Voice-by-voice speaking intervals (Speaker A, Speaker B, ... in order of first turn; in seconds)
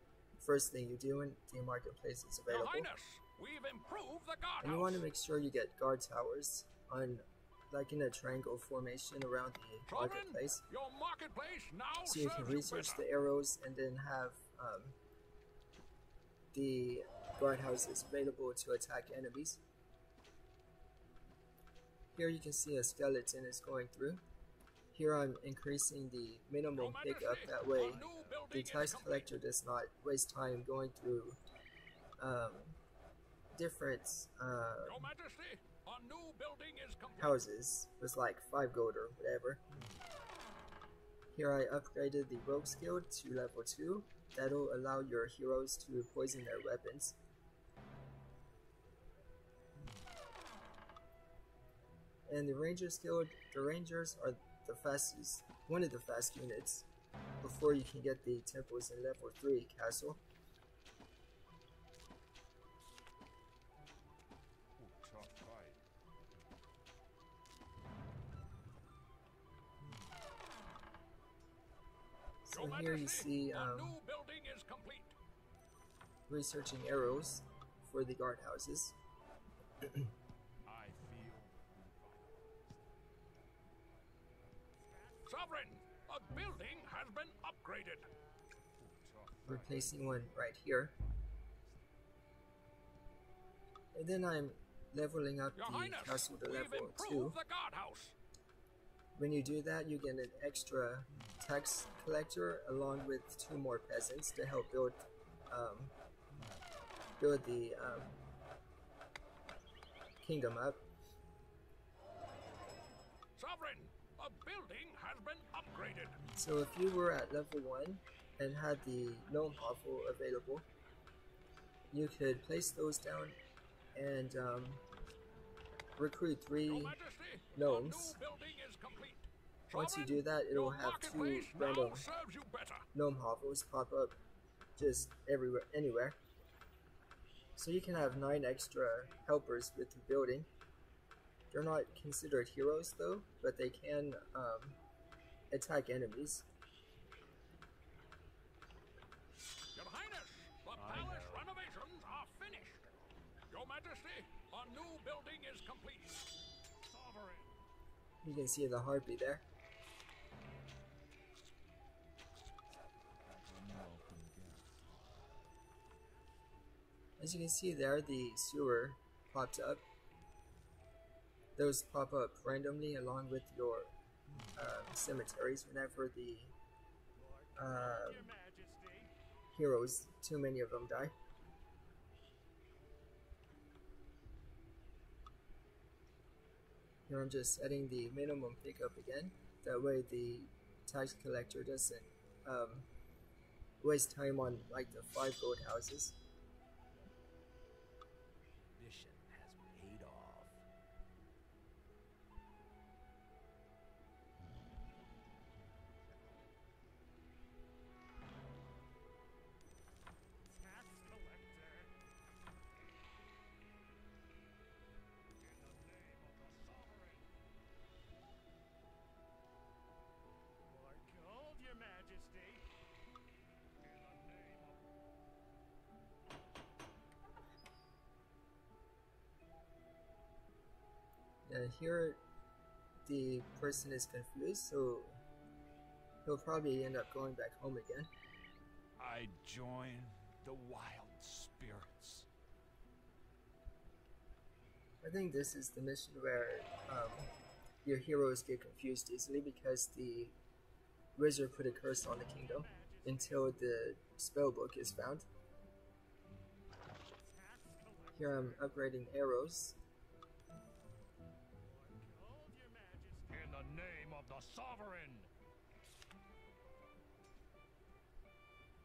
Speaker A: 0.4-2.9, 4.6-10.6, 12.0-14.9, 16.5-19.6, 22.1-24.2, 24.9-31.4, 32.2-32.8, 33.5-35.1, 37.2-39.6, 41.3-47.2, 52.3-56.9, 57.4-60.2, 72.5-74.0, 76.3-79.0, 89.5-90.9, 93.9-97.4, 99.2-105.9, 107.2-108.1, 110.2-110.8, 116.3-120.7, 121.9-123.4, 123.9-124.8, 126.0-127.0, 127.5-128.2, 129.7-132.1, 132.9-134.2, 134.8-136.2, 137.6-140.5, 141.5-144.8, 145.5-146.4, 158.2-159.4, 167.2-169.8, 171.6-173.9, 174.5-176.6, 177.6-178.3, 179.5-181.1, 187.1-192.9, 193.8-196.2, 231.4-232.2, 233.0-235.2, 236.2-238.1, 245.0-247.3, 247.8-250.3, 251.2-255.2, 258.1-259.8
Speaker B: 2.5-5.0, 9.9-13.0, 26.8-29.3, 34.8-37.4, 72.5-75.1, 85.3-88.1, 95.5-98.2, 113.3-116.2, 126.7-132.8, 149.7-152.8, 153.5-156.2, 156.9-157.6, 216.0-217.1, 263.3-265.3
Speaker C: 64.8-65.8, 80.7-82.8, 88.8-90.0, 150.7-151.5, 163.2-165.2, 198.8-200.6, 239.0-242.3